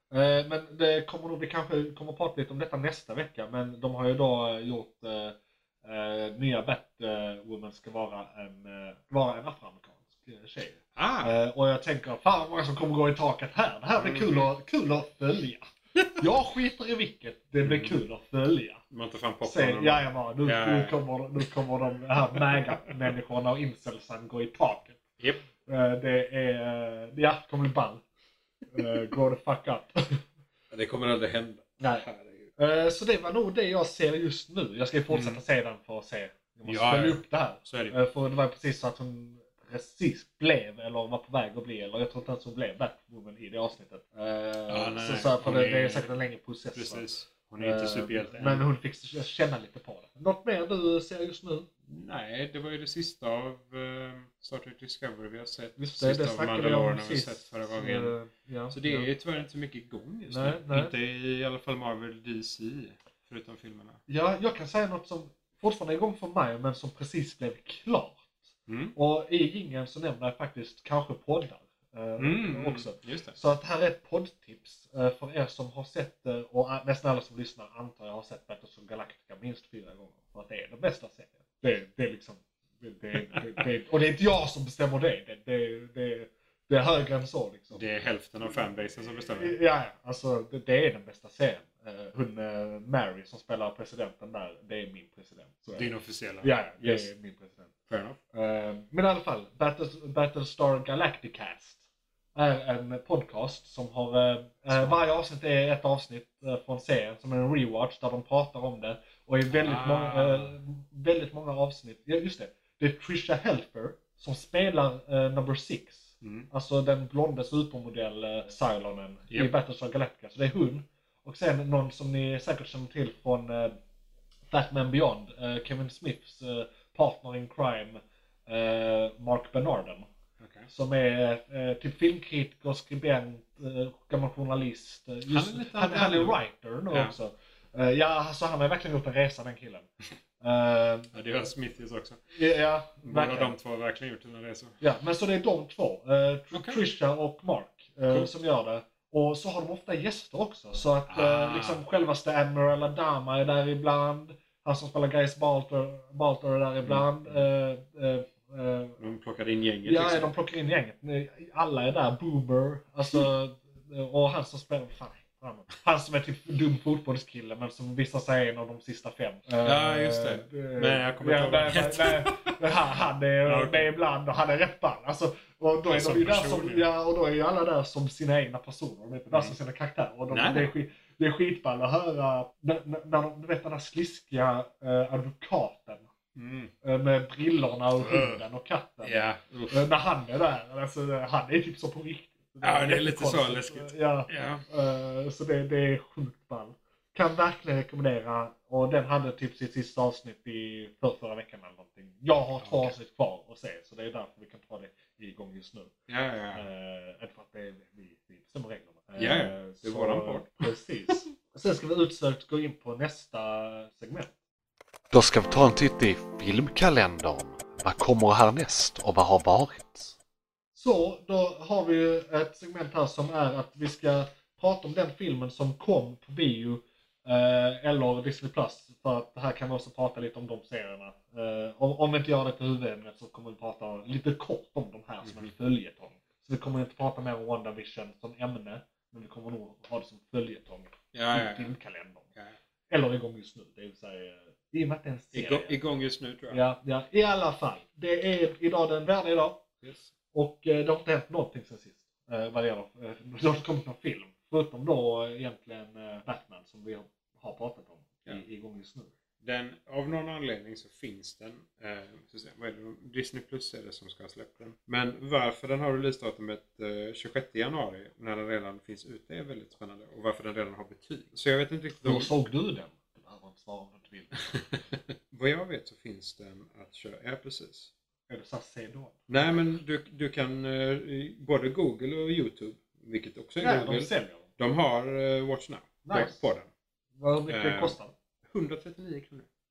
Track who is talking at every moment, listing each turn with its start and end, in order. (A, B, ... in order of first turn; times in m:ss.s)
0:00.1-0:18.8 A
0:11.0-0:11.3 B
0:14.0-0:14.5 B
0:17.6-0:18.0 B
0:18.9-0:21.0 B
0:19.4-0:25.0 A
0:25.6-0:28.0 A
0:28.7-0:30.2 A
0:30.7-0:32.5 B
0:31.8-0:32.0 A
0:32.6-0:47.0 A
0:35.1-0:35.4 B
0:36.6-0:38.0 B
0:44.7-0:46.1 B
0:46.7-0:48.6 B
0:47.6-0:51.7 A
0:51.9-0:58.1 B
0:55.8-0:59.1 A
0:58.7-1:04.0 B
1:00.3-1:00.9 A
1:04.1-1:08.3 A
1:08.7-1:08.9 B
1:08.9-1:27.9 A
1:12.2-1:13.4 B
1:27.7-1:29.6 B
1:29.1-1:35.9 A
1:35.7-1:37.1 B
1:36.4-1:37.7 A
1:37.9-1:38.2 B
1:38.3-1:41.8 A
1:42.3-2:03.8 A
1:44.7-1:45.0 B
1:49.5-1:50.5 B
1:56.2-1:56.5 B
2:04.5-2:10.1 A
2:10.4-2:10.7 B
2:10.7-2:19.9 A
2:15.2-2:16.4 B
2:20.4-2:21.1 A
2:21.1-2:22.2 B
2:22.3-2:23.5 A
2:23.0-2:24.8 B
2:24.8-2:39.0 A
2:26.5-2:26.8 B
2:31.1-2:31.8 B
2:36.8-2:37.4 B
2:39.0-2:40.3 B
2:39.8-3:06.1 A
2:49.6-2:52.6 B
2:53.4-2:53.9 B
2:55.9-2:56.9 B
3:00.3-3:00.7 B
3:06.3-3:06.7 B
3:06.8-3:25.9 A
3:08.0-3:08.4 B
3:09.0-3:09.8 B
3:12.6-3:14.6 B
3:22.6-3:22.9 B
3:26.1-3:26.6 B
3:26.5-3:34.3 A
3:29.2-3:30.7 B
3:35.1-3:40.1 C
3:40.7-4:02.2 A
3:55.2-3:55.5 B
4:01.1-4:01.7 B
4:02.9-4:05.8 A
4:05.3-4:06.6 B
4:06.5-4:09.6 A
4:09.8-4:10.1 B
4:10.3-4:19.1 A
4:19.4-4:32.3 B
4:32.0-4:34.5 A
4:34.5-4:37.9 B
4:38.3-4:39.2 A
4:39.3-4:46.7 B
4:43.6-4:44.4 A
4:46.0-4:46.4 A
4:47.2-4:48.1 A
4:47.5-4:48.0 B
4:48.5-4:49.4 B